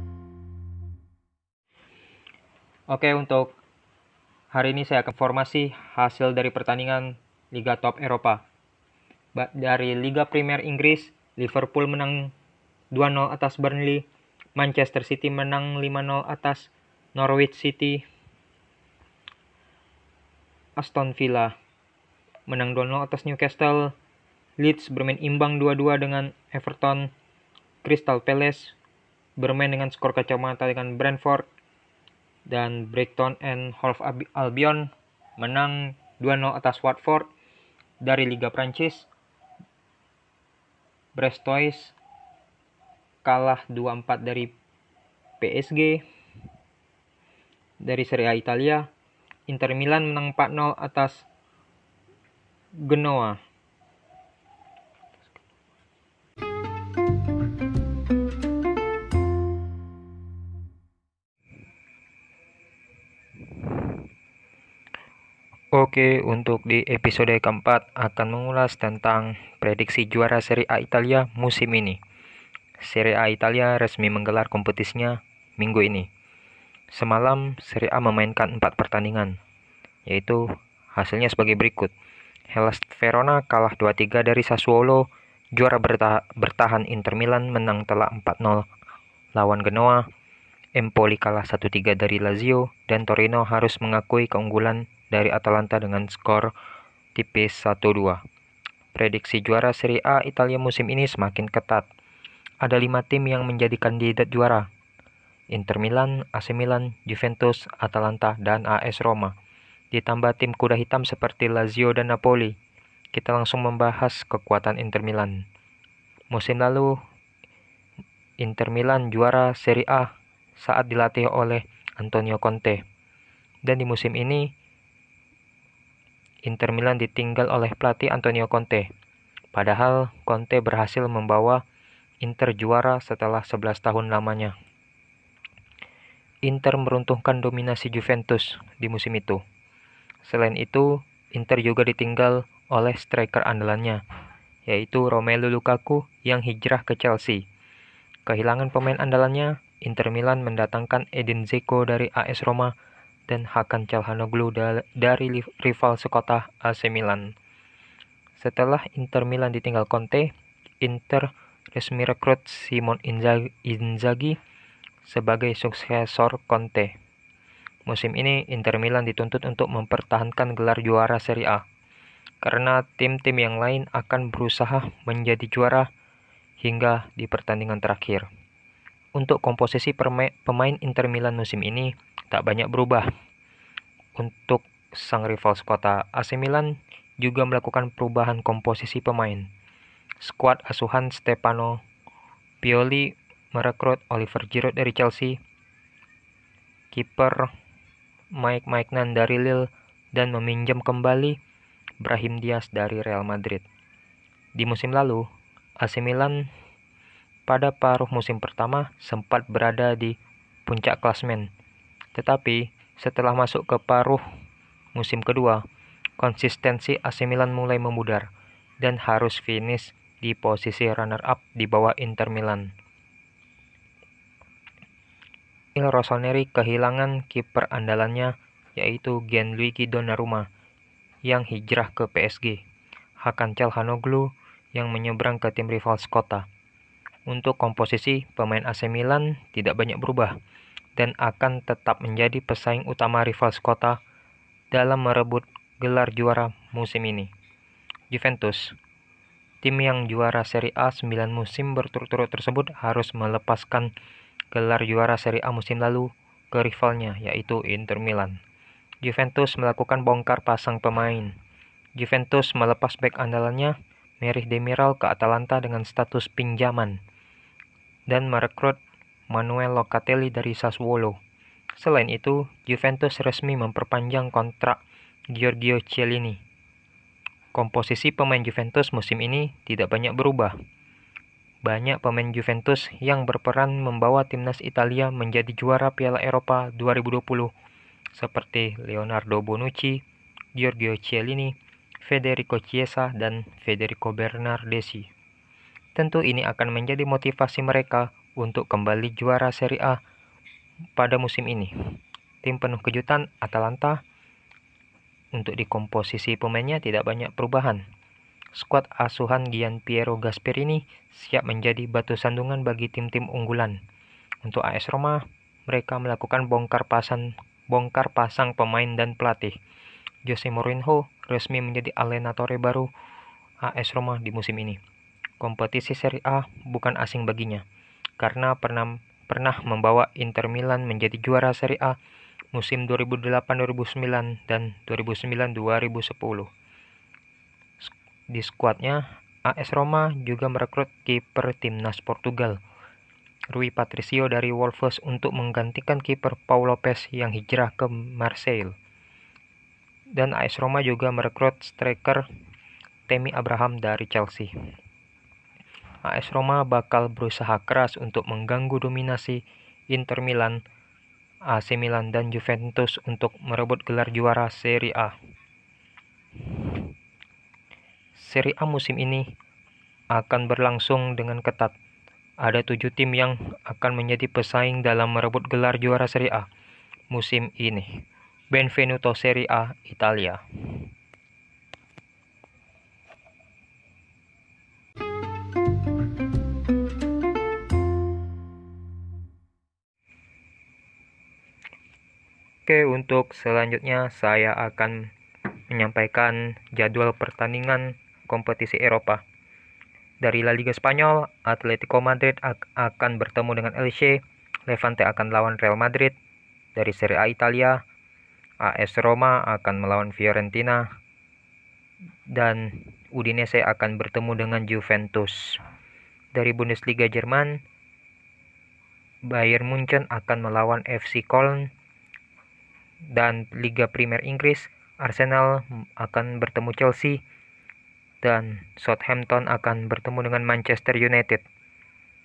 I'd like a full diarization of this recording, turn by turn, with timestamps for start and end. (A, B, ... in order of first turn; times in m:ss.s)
0:02.9-0:03.6 A
0:04.5-0:08.4 A
0:09.3-0:12.3 A
0:12.9-0:14.0 A
0:14.6-0:18.0 A
0:20.8-0:21.6 A
0:22.5-0:23.9 A
0:24.6-0:27.1 A
0:27.8-0:28.8 A
0:29.4-0:31.5 A
0:32.5-0:37.3 A
0:38.0-0:39.1 A
0:41.1-0:42.0 A
0:43.2-0:44.5 A
0:45.4-0:46.0 A
0:47.8-0:48.9 A
0:49.5-0:51.3 A
0:52.8-0:53.4 A
1:05.7-1:12.0 A
1:12.8-1:16.1 A
1:16.9-1:19.4 A
1:20.0-1:20.4 A
1:20.9-1:21.9 A
1:22.5-1:28.7 A
1:29.3-1:30.0 A
1:30.8-1:36.5 A
1:37.1-1:38.2 A
1:38.9-1:41.9 A
1:42.6-1:44.7 A
1:45.5-1:49.3 A
1:49.9-1:52.5 A
1:53.1-1:55.4 A
1:56.3-1:57.0 A
1:58.4-2:02.8 A
2:03.6-2:04.5 A
2:06.4-2:08.9 A
2:09.5-2:11.6 A
2:12.2-2:14.5 A
2:16.4-2:19.4 A
2:20.2-2:24.0 A
2:24.6-2:27.4 A
2:28.2-2:32.7 A
2:33.3-2:37.3 A
2:38.4-2:44.4 A
2:45.0-2:46.9 A
2:47.9-2:51.6 A
2:52.4-2:55.9 A
2:56.6-2:58.3 A
2:59.2-3:03.1 A
3:04.2-3:09.5 A
3:10.2-3:11.8 A
3:12.6-3:15.4 A
3:16.9-3:17.5 A
3:18.3-3:21.4 A
3:22.0-3:23.6 A
3:24.6-3:25.2 A
3:25.8-3:26.5 A
3:27.4-3:31.5 A
3:32.1-3:34.2 A
3:34.9-3:35.6 A
3:36.2-3:38.3 A
3:38.8-3:42.7 A
3:45.8-3:50.5 A
3:51.2-3:52.6 A
3:53.2-3:56.4 A
3:57.3-4:00.3 A
4:01.0-4:04.0 A
4:04.7-4:07.3 A
4:08.1-4:08.8 A
4:09.6-4:13.9 A
4:14.5-4:18.4 A
4:19.0-4:21.3 A
4:22.0-4:27.0 A
4:28.1-4:31.2 A
4:31.8-4:34.8 A
4:35.3-4:36.4 A
4:37.5-4:40.5 A
4:41.6-4:47.5 A
4:48.1-4:50.0 A
4:50.5-4:55.1 A
4:56.0-5:00.0 A
5:01.0-5:01.7 A
5:02.4-5:04.0 A
5:05.3-5:07.8 A
5:08.5-5:13.8 A
5:14.4-5:19.6 A
5:20.2-5:22.9 A
5:23.6-5:24.8 A
5:25.4-5:27.6 A
5:28.2-5:32.0 A
5:32.5-5:36.5 A
5:37.8-5:42.6 A
5:43.5-5:48.7 A
5:50.1-5:52.2 A
5:53.1-5:54.5 A
5:56.0-6:00.6 A
6:01.5-6:05.2 A
6:08.2-6:09.3 A
6:10.1-6:11.7 A
6:12.4-6:16.5 A
6:17.1-6:17.9 A
6:18.5-6:20.4 A
6:32.6-6:35.1 A
6:35.7-6:39.2 A
6:40.2-6:46.2 A
6:46.8-6:47.8 A
6:48.6-6:50.9 A
6:52.3-6:55.6 A
6:56.3-6:57.6 A
6:59.2-7:01.7 A
7:03.1-7:07.2 A
7:08.2-7:11.4 A